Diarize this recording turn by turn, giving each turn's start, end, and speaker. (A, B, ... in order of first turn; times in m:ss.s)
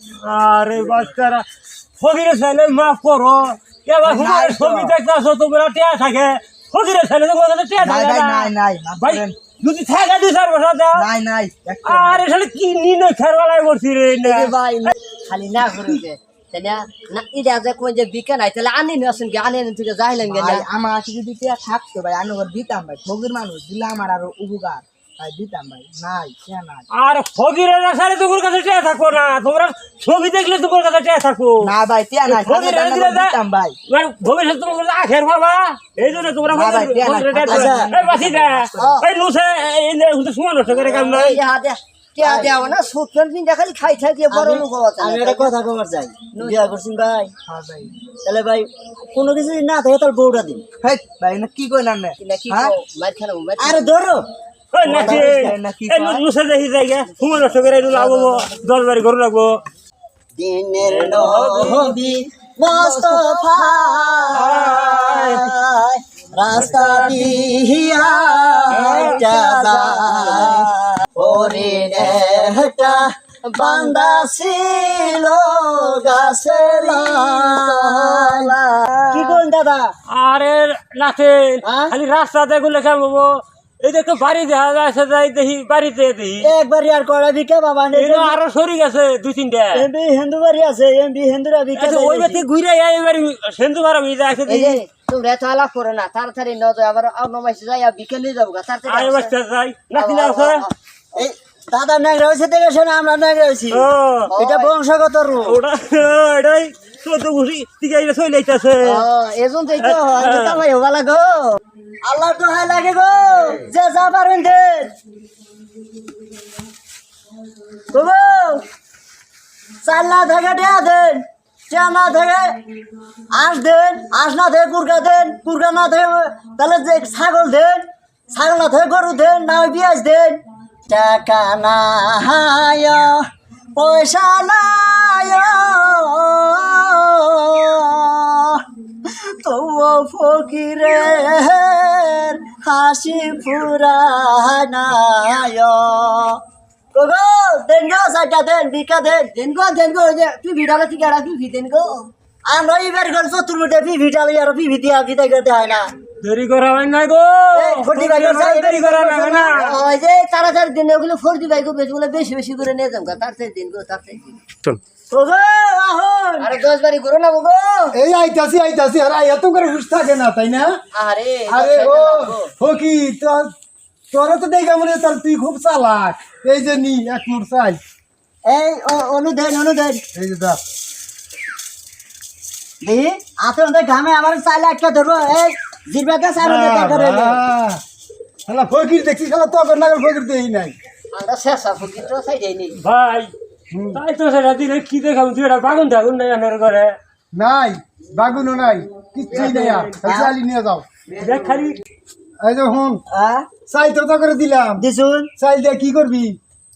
0:00.2-0:01.4 A
0:02.0-0:11.1 A
0:04.0-0:04.9 B
0:07.8-0:09.4 B
0:10.9-0:12.2 B
0:11.8-0:14.9 A
0:14.2-0:20.6 C
0:20.2-0:26.9 B
0:26.9-0:31.7 A
0:31.6-0:33.8 B
0:32.2-0:33.4 A
0:33.9-0:41.4 A
0:36.5-0:39.0 B
0:37.5-0:37.9 D
0:38.8-0:39.0 C
0:40.7-0:41.2 D
0:41.1-0:45.5 C
0:42.2-0:42.6 D
0:44.3-0:47.3 D
0:46.3-0:46.6 C
0:47.5-0:47.9 B
0:48.1-0:50.6 D
0:50.8-0:52.7 B
0:52.2-0:53.9 C
0:53.6-0:54.2 D
0:54.7-0:59.5 A
0:54.8-0:56.2 B
0:54.8-0:55.6 D
0:58.0-0:58.5 B
1:00.4-1:18.5 D
1:00.8-1:02.0 A
1:02.7-1:04.3 C
1:04.3-1:05.5 A
1:06.5-1:07.3 A
1:08.7-1:14.3 C
1:08.7-1:09.2 A
1:15.9-1:19.4 C
1:19.1-1:19.9 D
1:20.1-1:26.5 A
1:21.6-1:21.9 D
1:26.4-1:28.4 D
1:27.9-1:29.8 A
1:29.7-1:32.4 D
1:31.7-1:34.8 A
1:34.5-1:39.3 C
1:38.9-1:40.6 A
1:39.9-1:40.7 C
1:41.1-1:45.6 D
1:43.7-1:44.3 A
1:44.3-1:44.7 C
1:45.4-1:49.0 A
1:48.8-1:51.6 C
1:49.8-1:50.6 A
1:52.0-1:54.9 D
1:57.9-1:58.6 D
1:59.8-2:02.6 D
2:03.3-2:26.4 D
2:26.9-2:29.3 D
2:29.3-2:32.1 C
2:32.5-2:35.9 D
2:36.2-2:39.7 A
2:37.5-2:39.8 D
2:39.5-2:44.3 C
2:45.1-2:46.5 D
2:46.4-2:48.0 C
2:47.9-2:50.8 E
2:50.9-2:52.5 C
2:51.5-2:53.5 E
2:54.1-2:57.8 E
2:58.5-3:00.0 D
3:00.1-3:00.6 E
3:02.8-3:07.4 D
3:06.4-3:07.8 E
3:08.5-3:10.7 E
3:11.1-3:12.8 C
3:12.8-3:13.3 A
3:13.7-3:14.0 E
3:13.9-3:16.9 A
3:17.3-3:20.8 E
3:19.3-3:19.9 A
3:19.3-3:20.3 D
3:21.2-3:21.8 A
3:22.4-3:23.0 E
3:23.1-3:23.5 D
3:23.7-3:24.8 E
3:24.8-3:25.3 D
3:25.4-3:26.4 E